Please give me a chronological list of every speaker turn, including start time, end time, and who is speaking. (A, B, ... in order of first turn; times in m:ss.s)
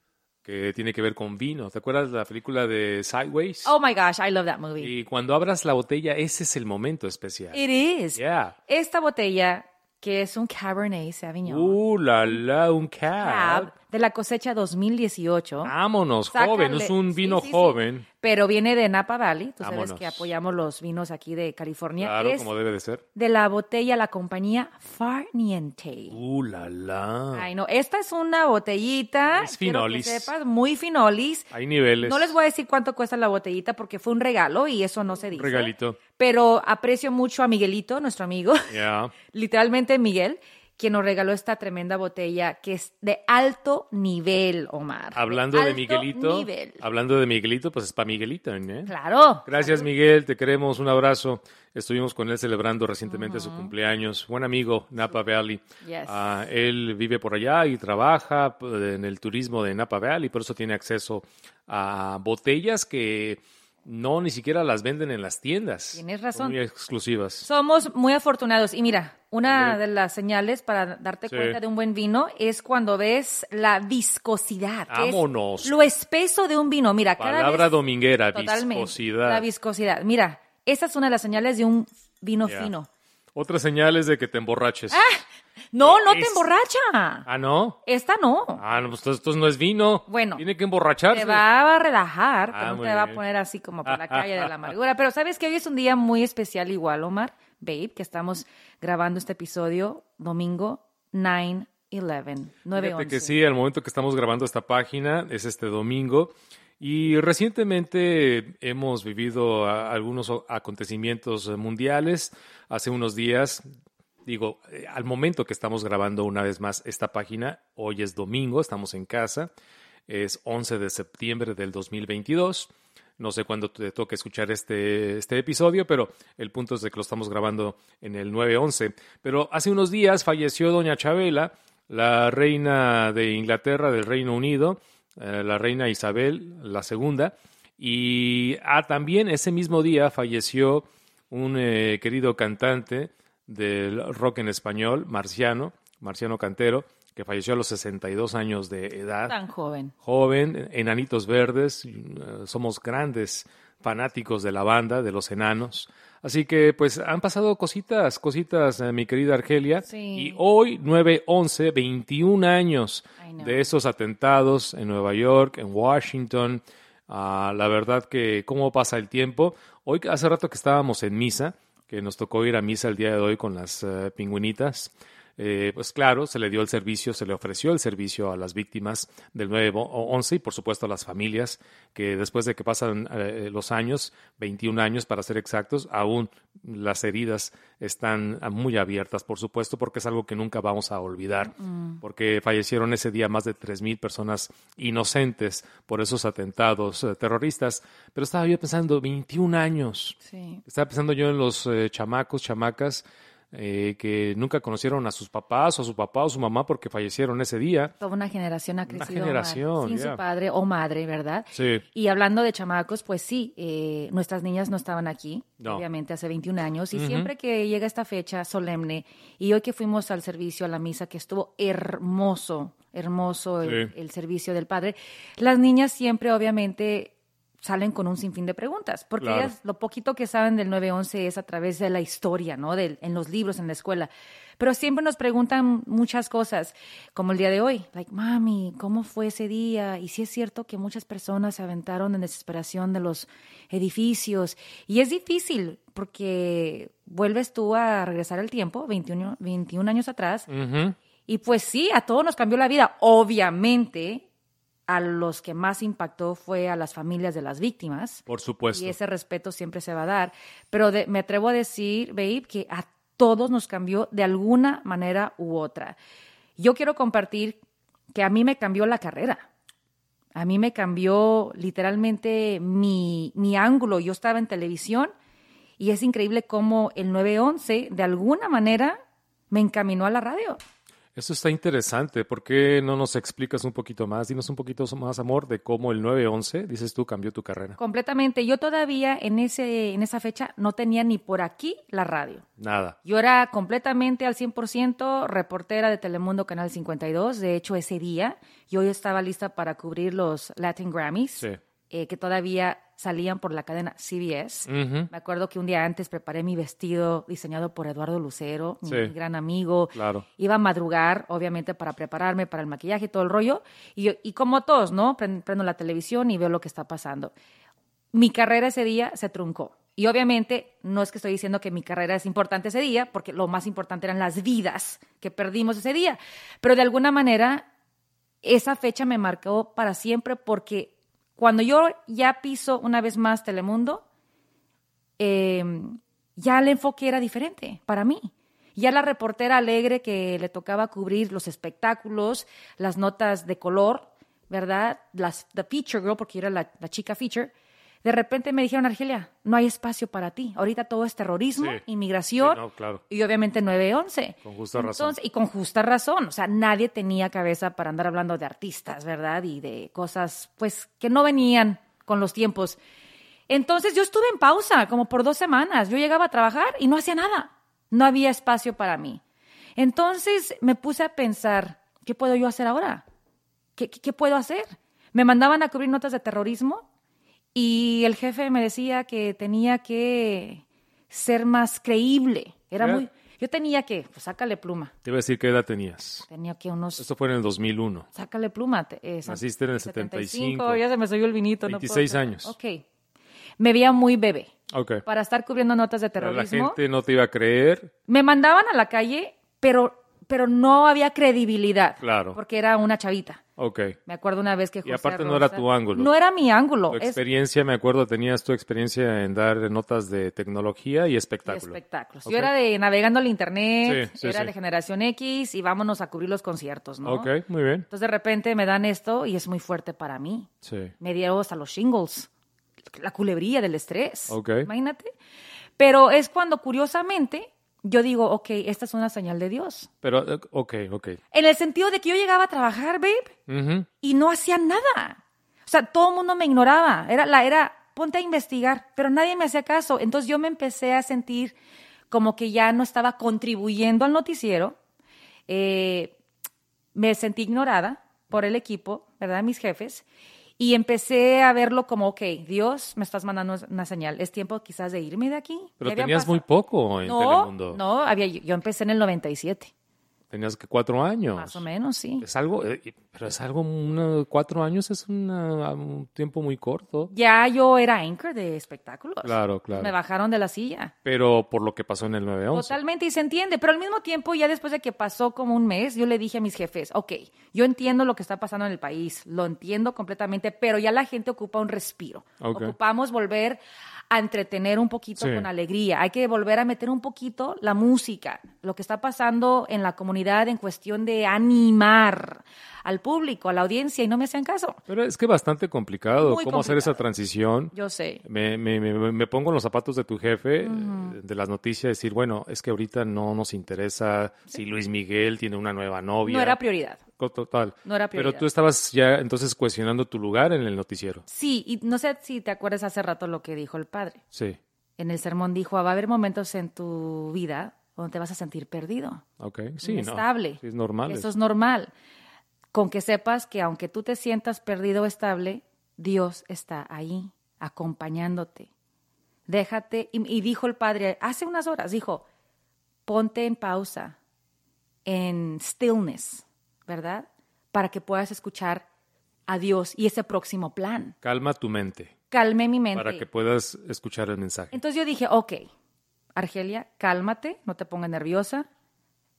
0:00.4-0:03.7 A
0:03.6-0:04.9 B
0:04.8-0:07.6 A
0:07.5-0:11.8 B
0:08.2-0:08.6 A
0:11.5-0:13.7 A
0:13.1-0:15.7 B
0:15.6-0:18.1 A
0:16.3-0:22.5 B
0:19.6-0:20.3 A
0:22.0-0:23.0 A
0:23.2-0:26.2 B
0:26.1-0:27.5 A
0:27.3-0:38.7 B
0:29.3-0:30.3 A
0:31.5-0:32.4 A
0:35.3-0:36.0 A
0:38.7-0:39.1 A
0:39.3-0:46.8 B
0:45.2-0:48.9 A
0:48.9-0:49.9 B
0:49.4-1:07.5 A
0:53.1-0:53.7 B
0:55.8-0:56.4 B
1:06.0-1:06.6 B
1:07.4-1:17.7 B
1:09.4-1:09.8 A
1:11.3-1:11.6 A
1:14.9-1:15.7 A
1:17.2-1:19.4 A
1:18.3-1:22.9 B
1:22.4-1:22.7 A
1:23.4-1:25.0 A
1:24.9-1:27.3 B
1:25.8-1:26.5 A
1:27.3-1:27.8 A
1:27.9-1:28.6 B
1:28.6-1:31.4 A
1:30.1-1:30.4 B
1:31.1-1:43.4 B
1:32.5-1:33.2 A
1:33.9-1:34.7 A
1:42.7-1:53.6 A
1:54.3-1:59.5 A
2:00.1-2:29.4 A
2:29.3-2:29.9 B
2:30.0-3:27.9 A
2:39.9-2:40.4 B
2:43.2-2:43.7 B
3:11.5-3:12.0 B
3:20.2-3:20.6 B
3:28.0-4:10.5 B
3:28.9-3:30.2 A
3:31.5-3:31.8 A
3:35.6-3:35.8 A
3:36.9-3:37.3 A
3:43.6-3:43.9 A
3:49.2-3:49.5 A
4:10.5-4:11.0 A
4:11.3-4:14.3 B
4:14.9-4:26.0 B
4:18.3-4:19.0 A
4:26.6-4:27.6 B
4:28.1-4:29.5 B
4:30.4-4:35.1 B
4:35.8-4:39.0 B
4:39.5-4:40.6 B
4:41.2-4:47.8 A
4:47.8-4:52.4 B
4:52.6-4:53.0 A
4:53.0-5:17.3 B
5:04.7-5:05.1 A
5:08.8-5:09.1 A
5:10.0-5:10.2 A
5:18.1-5:27.7 B
5:28.4-5:34.0 B
5:35.2-5:47.5 B
5:48.0-6:02.8 B
5:51.6-5:51.8 A
5:52.4-5:53.0 A
5:54.4-5:55.2 A
6:03.5-6:09.2 B
6:09.8-6:13.0 B
6:13.8-6:16.8 B
6:17.6-6:24.9 B
6:22.8-6:23.0 A
6:25.0-6:26.3 A
6:26.3-6:27.0 B
6:27.0-6:28.1 A
6:28.2-6:32.8 B
6:29.3-6:30.8 A
6:31.7-6:32.5 A
6:33.6-6:34.5 B
6:34.7-6:35.0 A
6:35.0-6:36.8 B
6:36.2-6:37.9 A
6:38.1-6:43.4 B
6:42.0-6:42.4 A
6:43.6-6:44.0 A
6:44.1-6:47.2 B
6:44.8-6:46.1 A
6:46.9-6:52.5 A
6:51.5-6:57.3 B
6:53.8-6:54.5 A
6:57.0-6:57.9 A
6:57.9-7:00.5 B
7:00.6-7:00.9 A
7:01.0-7:02.3 B
7:02.9-7:05.1 B
7:04.3-7:04.7 A
7:05.8-7:09.9 B
7:10.0-7:11.2 A
7:11.3-7:13.3 B
7:13.5-7:13.9 A
7:14.0-7:21.6 B
7:22.1-7:24.8 B
7:25.5-7:26.2 B
7:27.0-7:30.0 B
7:30.6-7:36.4 B
7:35.8-7:37.8 A
7:37.1-7:39.7 B
7:40.3-7:41.6 A
7:41.4-7:42.2 B
7:42.2-7:47.1 A
7:47.1-7:50.9 B
7:49.2-7:49.9 A
7:51.0-7:52.8 A
7:52.5-8:14.8 B
8:02.4-8:02.7 A
8:05.2-8:05.5 A
8:14.9-8:26.6 A
8:16.2-8:17.0 B
8:17.7-8:18.2 B
8:20.6-8:21.2 B
8:26.2-8:27.0 B
8:27.2-8:31.3 A
8:27.8-8:28.5 B
8:31.3-8:34.2 B
8:34.3-8:34.6 A
8:35.0-8:39.2 B
8:39.4-8:41.3 A
8:39.8-8:41.9 B
8:42.7-8:48.7 B
8:49.5-8:52.2 B
8:53.1-8:54.2 B
8:55.1-8:58.9 B
8:59.5-9:01.2 B
9:01.2-9:02.2 A
9:02.3-9:03.2 B
9:02.9-9:04.8 A
9:04.7-9:05.7 B
9:06.4-9:08.7 B